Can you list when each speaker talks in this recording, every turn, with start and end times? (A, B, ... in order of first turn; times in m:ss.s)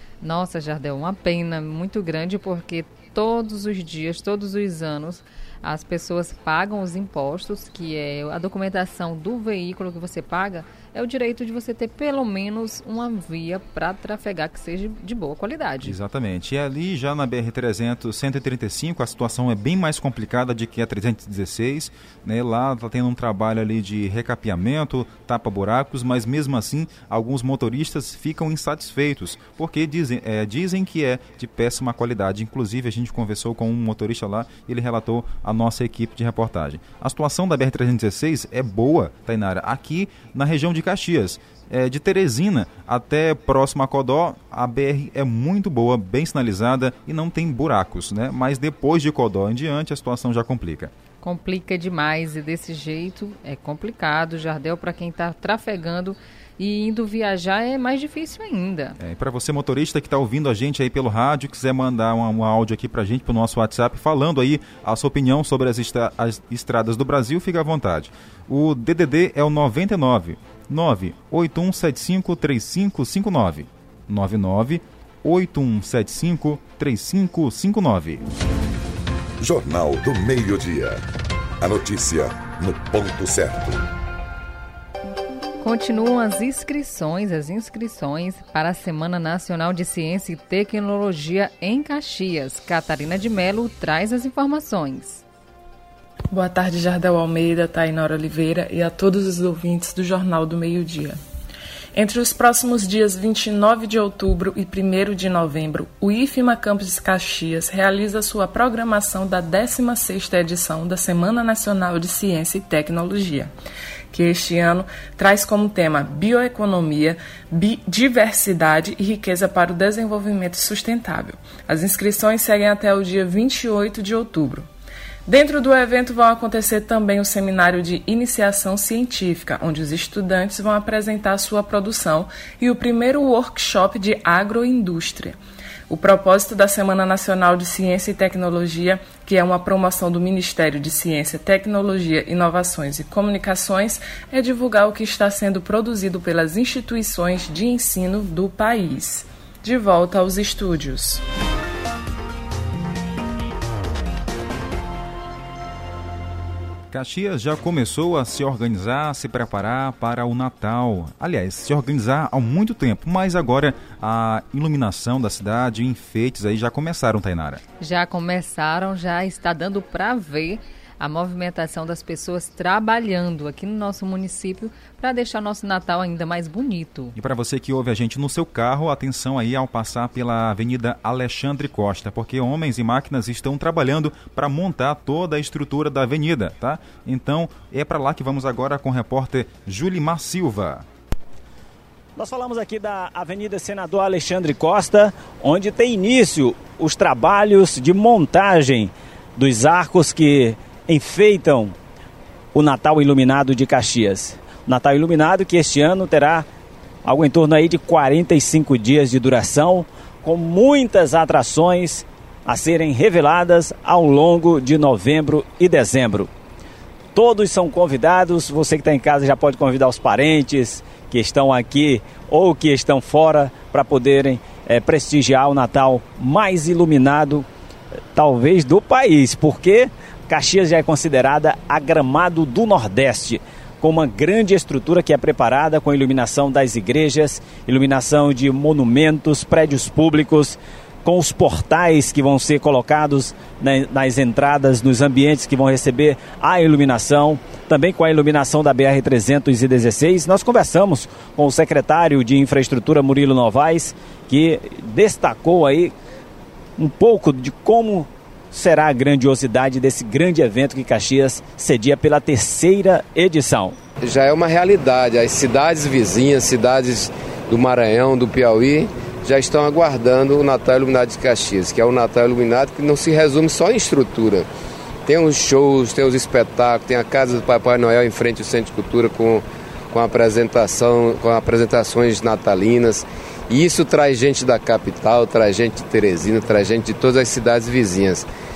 0:00.2-0:16.0 A
0:15.8-0:50.9 B
0:51.2-0:59.0 A
0:59.0-1:18.2 B
1:19.4-1:21.0 C
1:21.6-1:23.8 C
1:25.6-1:35.2 A
1:36.3-1:41.2 D
1:41.9-1:53.5 D
1:54.1-2:04.7 D
2:05.2-2:31.2 D
2:36.9-2:47.6 B
2:47.8-2:57.1 A
2:57.2-3:10.8 B
3:12.2-3:21.8 E
3:22.5-3:26.5 E
3:27.0-3:36.3 E
3:37.1-3:47.5 E
3:48.1-4:15.9 E
4:16.8-4:23.8 E
4:24.0-4:34.4 F
4:35.1-4:48.3 F